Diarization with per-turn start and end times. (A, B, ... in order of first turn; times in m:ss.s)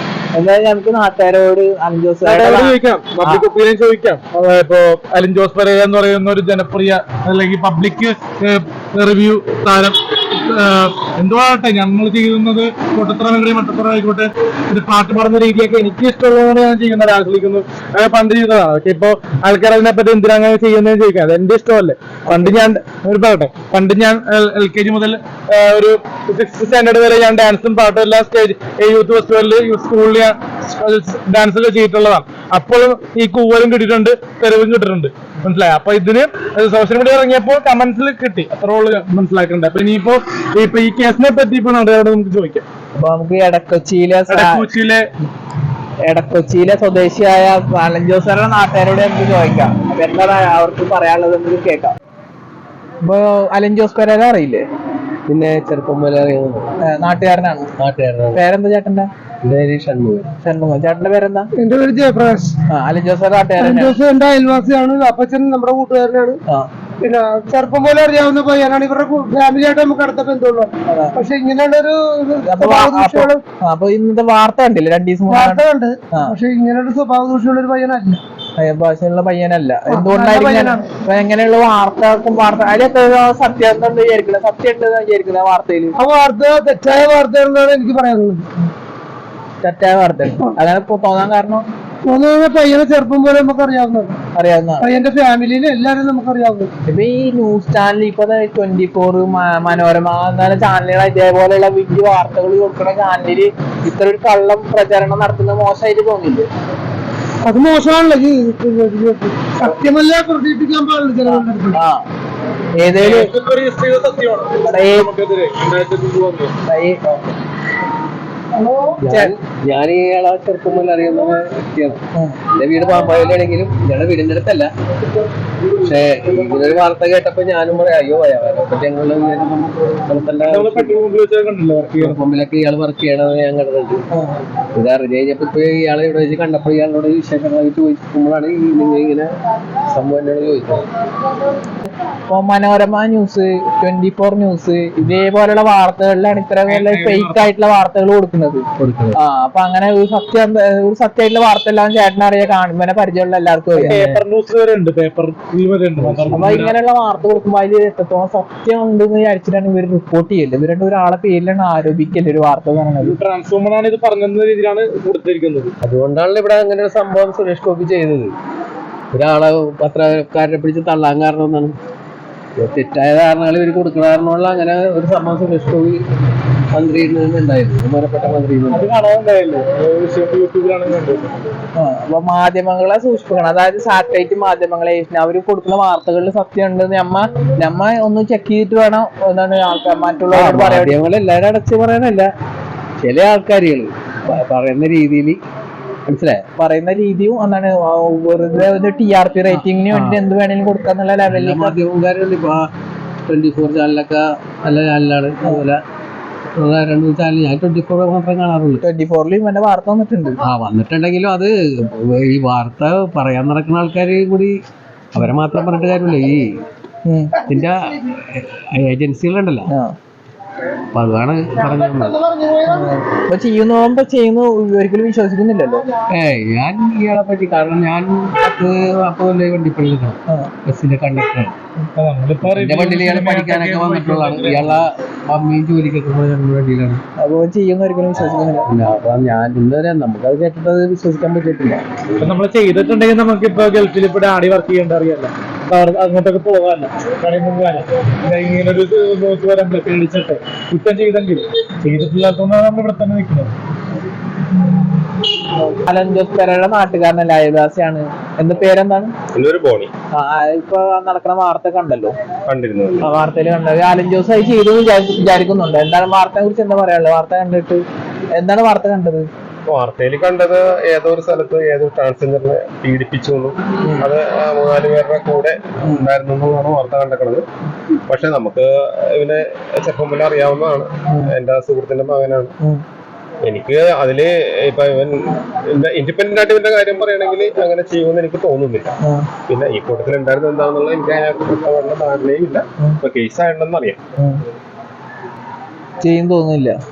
0:00.3-0:03.4 A
0:02.2-0:42.6 B
0:22.3-0:22.5 A
0:43.0-0:44.7 A
0:44.3-0:45.0 B
0:46.1-0:52.0 A
0:53.0-0:54.6 A
0:55.3-0:56.7 C
0:56.8-0:57.7 A
0:57.8-0:58.4 C
0:58.3-0:59.1 A
0:59.4-1:00.3 C
1:00.4-1:01.5 A
1:01.6-1:02.5 D
1:02.7-1:04.0 A
1:03.6-1:06.4 D
1:07.0-1:13.4 D
1:10.9-1:11.2 A
1:12.4-1:16.4 A
1:15.3-1:18.2 D
1:18.6-1:25.9 A
1:19.9-1:20.9 D
1:26.0-1:28.5 D
1:29.6-1:31.6 A
1:32.0-1:34.2 D
1:34.3-1:34.9 A
1:34.8-1:36.7 D
1:36.9-1:46.5 A
1:47.4-1:51.8 D
1:51.2-1:52.1 A
1:52.8-1:53.2 A
1:52.9-1:56.5 B
1:54.6-1:55.1 A
1:56.7-1:57.3 A
1:59.0-2:02.0 C
1:59.1-1:59.3 A
2:02.1-2:02.4 A
2:02.5-2:04.7 C
2:05.8-2:11.0 C
2:10.5-2:12.2 B
2:12.0-2:14.0 C
2:14.1-2:14.4 A
2:14.7-2:19.3 C
2:19.8-2:20.9 C
2:22.3-2:34.2 A
2:26.7-2:27.5 B
2:28.8-2:29.2 C
2:33.7-2:36.7 B
2:36.0-2:36.6 C
2:36.3-2:43.2 A
2:43.0-2:45.7 B
2:45.8-2:48.3 C
2:49.1-2:51.7 C
2:52.6-2:56.0 C
2:56.7-2:58.9 C
2:58.7-3:01.3 B
3:01.8-3:11.0 A
3:10.3-3:12.2 C
3:11.6-3:12.2 A
3:13.0-3:15.4 C
3:16.1-3:16.4 C
3:16.6-3:21.8 A
3:19.5-3:20.2 C
3:21.2-3:22.7 C
3:23.3-3:25.8 C
3:26.6-3:28.8 C
3:28.8-3:30.4 A
3:30.4-3:34.6 C
3:35.1-3:36.5 C
3:37.0-3:37.4 A
3:37.4-3:39.7 C
3:39.7-3:40.0 A
3:40.9-3:42.2 C
3:42.3-3:42.6 D
3:42.6-3:45.8 A
3:46.1-3:51.6 C
3:52.0-3:54.8 B
3:52.5-3:57.0 C
3:57.2-3:58.7 A
3:58.6-4:02.3 C
4:02.2-4:13.5 B
4:15.6-4:19.1 A
4:19.3-4:19.9 E
4:20.1-4:22.1 A
4:22.5-4:23.1 E
4:23.0-4:27.8 A
4:28.4-4:29.2 A
4:29.7-4:37.4 E
4:38.1-4:42.5 E
4:43.5-4:49.0 E
4:49.0-4:49.3 A
4:49.5-4:54.0 E
4:56.0-4:56.7 A